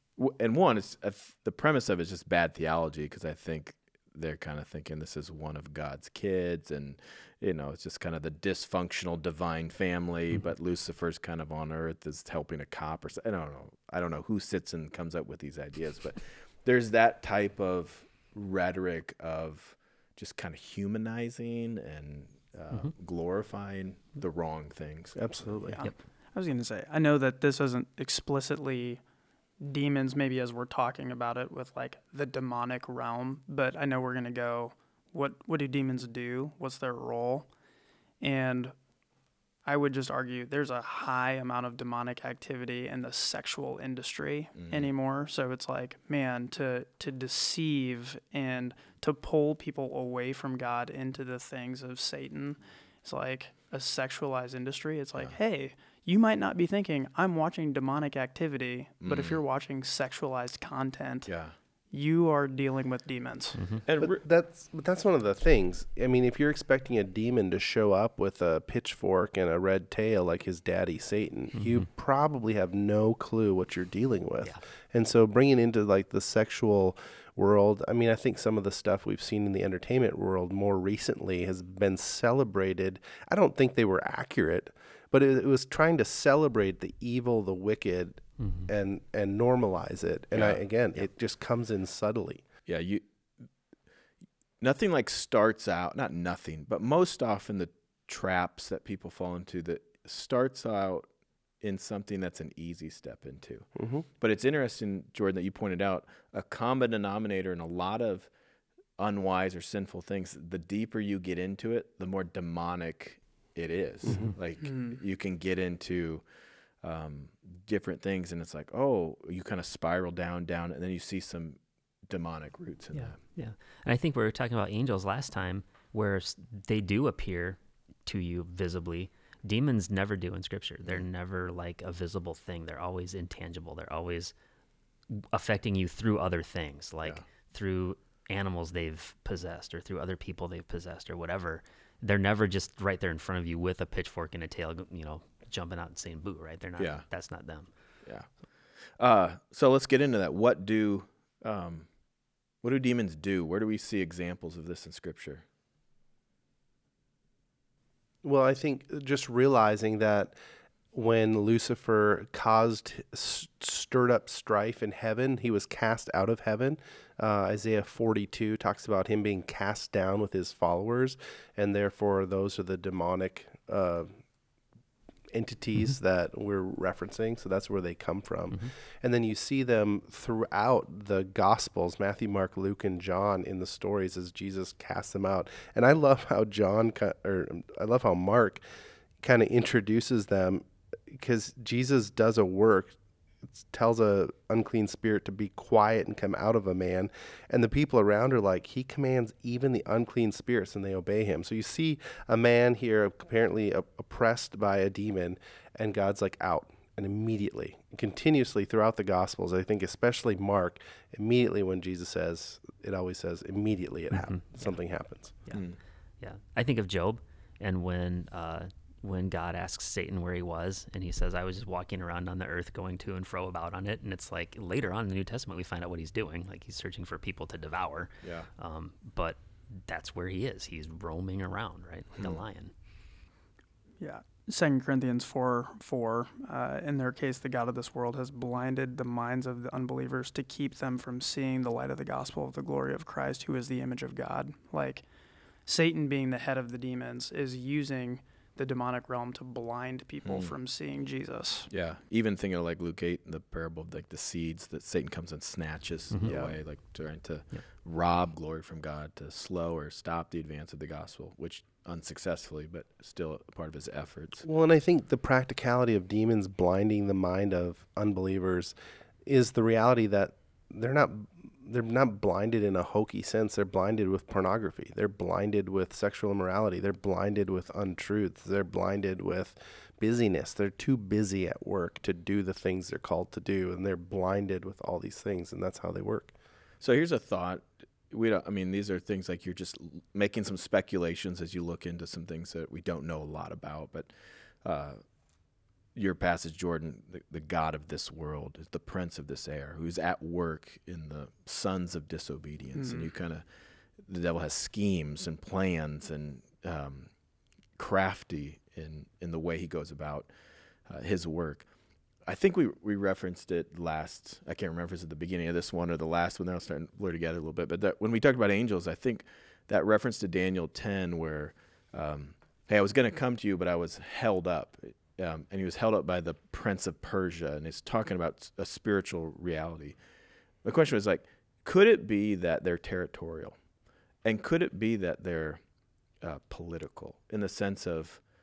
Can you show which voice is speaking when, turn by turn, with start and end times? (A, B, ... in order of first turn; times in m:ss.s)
0:00.2-0:25.5 A
0:25.1-0:25.8 B
0:25.7-0:29.0 C
0:29.6-0:37.5 C
0:38.2-0:38.7 C
0:39.6-1:01.3 C
0:44.5-0:44.9 A
0:59.0-0:59.4 A
1:01.3-1:01.5 A
1:01.9-1:03.6 C
1:03.6-1:03.8 D
1:03.8-1:04.2 A
1:04.0-1:32.4 B
1:28.4-1:28.7 D
1:30.3-1:31.0 A
1:32.7-1:33.0 A
1:34.6-1:41.1 A
1:41.6-1:48.3 A
1:43.8-1:44.0 B
1:49.0-1:56.2 A
1:54.0-1:54.3 B
1:54.6-1:55.0 C
1:56.8-2:03.2 A
2:02.9-2:14.3 D
2:15.1-2:27.7 D
2:26.8-2:27.0 A
2:29.0-2:31.9 A
2:32.6-2:35.4 A
2:38.2-2:40.4 B
2:40.9-2:54.3 B
2:55.3-3:08.6 B
3:09.2-3:12.9 B
3:13.6-3:35.4 B
3:34.1-3:34.8 D
3:35.5-3:35.8 A
3:36.2-3:52.7 D
3:48.2-3:48.5 A
3:54.0-4:05.0 C
4:05.6-4:11.7 C
4:10.2-4:10.5 A
4:11.7-4:24.4 A
4:16.2-4:16.6 B
4:24.4-4:46.3 B
4:46.8-4:55.0 A
4:55.9-5:03.4 A
5:02.8-5:03.1 C
5:04.0-5:07.1 A
5:07.8-5:10.3 A
5:10.8-5:11.7 A
5:12.2-5:30.0 A
5:30.6-5:33.6 A
5:34.2-5:35.6 A
5:36.2-5:38.2 A